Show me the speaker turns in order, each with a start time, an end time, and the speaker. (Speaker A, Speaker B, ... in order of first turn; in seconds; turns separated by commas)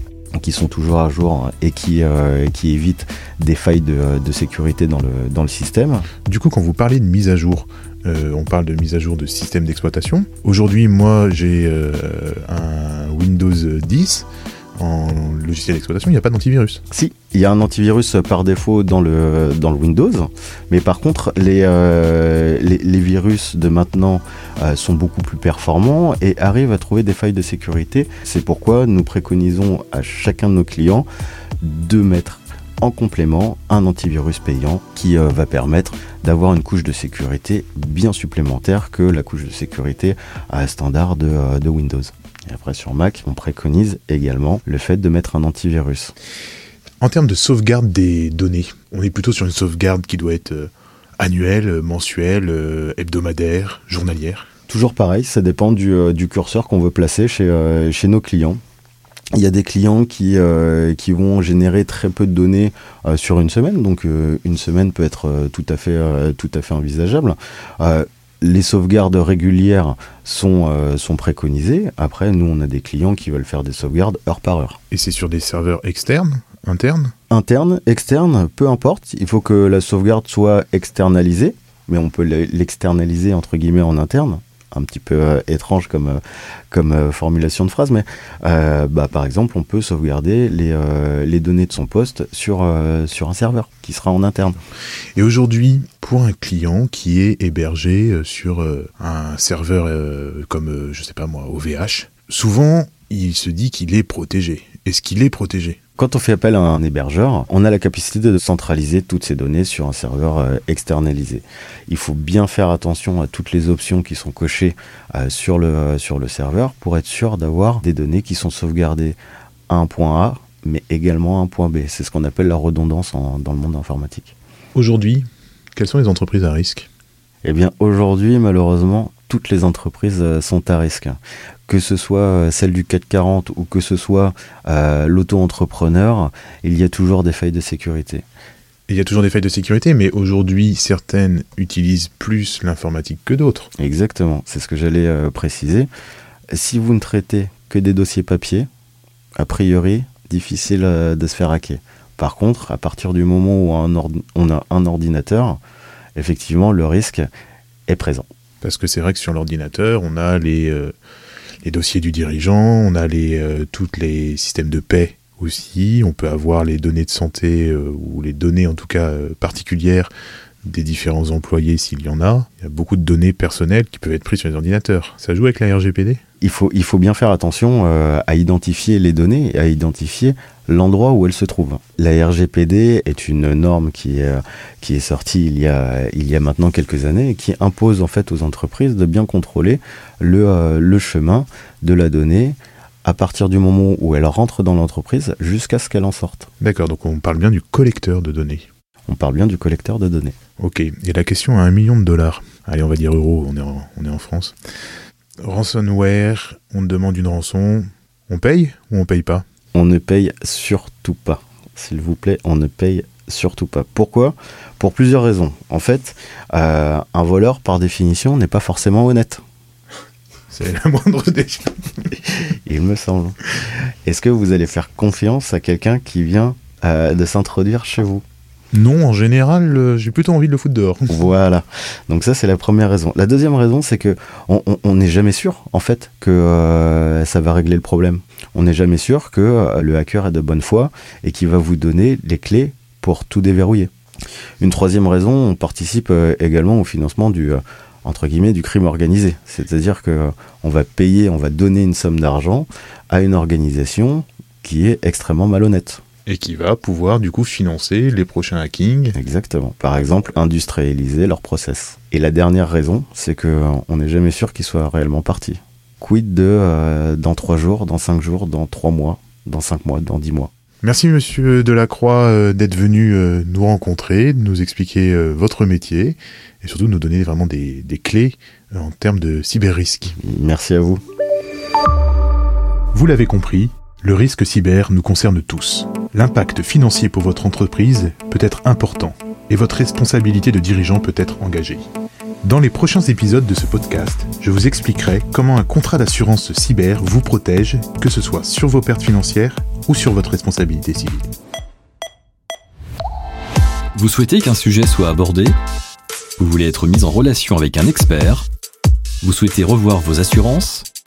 Speaker A: 0.4-6.1, Speaker B: 6.2-16.8, Speaker A: 16.9-31.1, Speaker A: 31.6-46.1, Speaker B: 47.0-54.5, Speaker A: 54.7-58.6, Speaker A: 59.4-74.8, Speaker B: 74.9-77.1, Speaker A: 77.3-94.6, Speaker B: 95.2-105.8, Speaker A: 106.0-119.2, Speaker A: 119.7-124.3, Speaker B: 124.8-126.9, Speaker A: 127.4-138.2, Speaker B: 138.9-143.7, Speaker A: 143.8-145.9, Speaker A: 146.5-148.7, Speaker A: 149.4-155.6, Speaker A: 156.2-157.3, Speaker A: 157.9-158.2, Speaker B: 158.6-160.9, Speaker B: 161.6-170.1, Speaker B: 170.6-176.2, Speaker A: 176.4-196.5, Speaker B: 196.6-198.7, Speaker A: 199.1-200.3, Speaker B: 200.6-204.6, Speaker B: 205.4-209.4, Speaker A: 209.7-219.4, Speaker B: 220.5-222.5, Speaker A: 222.6-223.3, Speaker A: 224.1-228.2, Speaker B: 228.7-231.2, Speaker A: 231.1-243.9, Speaker A: 244.6-256.0, Speaker B: 256.3-259.2, Speaker A: 259.1-270.5, Speaker B: 270.8-280.1, Speaker A: 280.2-281.0, Speaker B: 282.9-291.9, Speaker B: 292.4-301.3, Speaker C: 303.9-305.6, Speaker C: 306.4-308.5, Speaker C: 309.2-310.9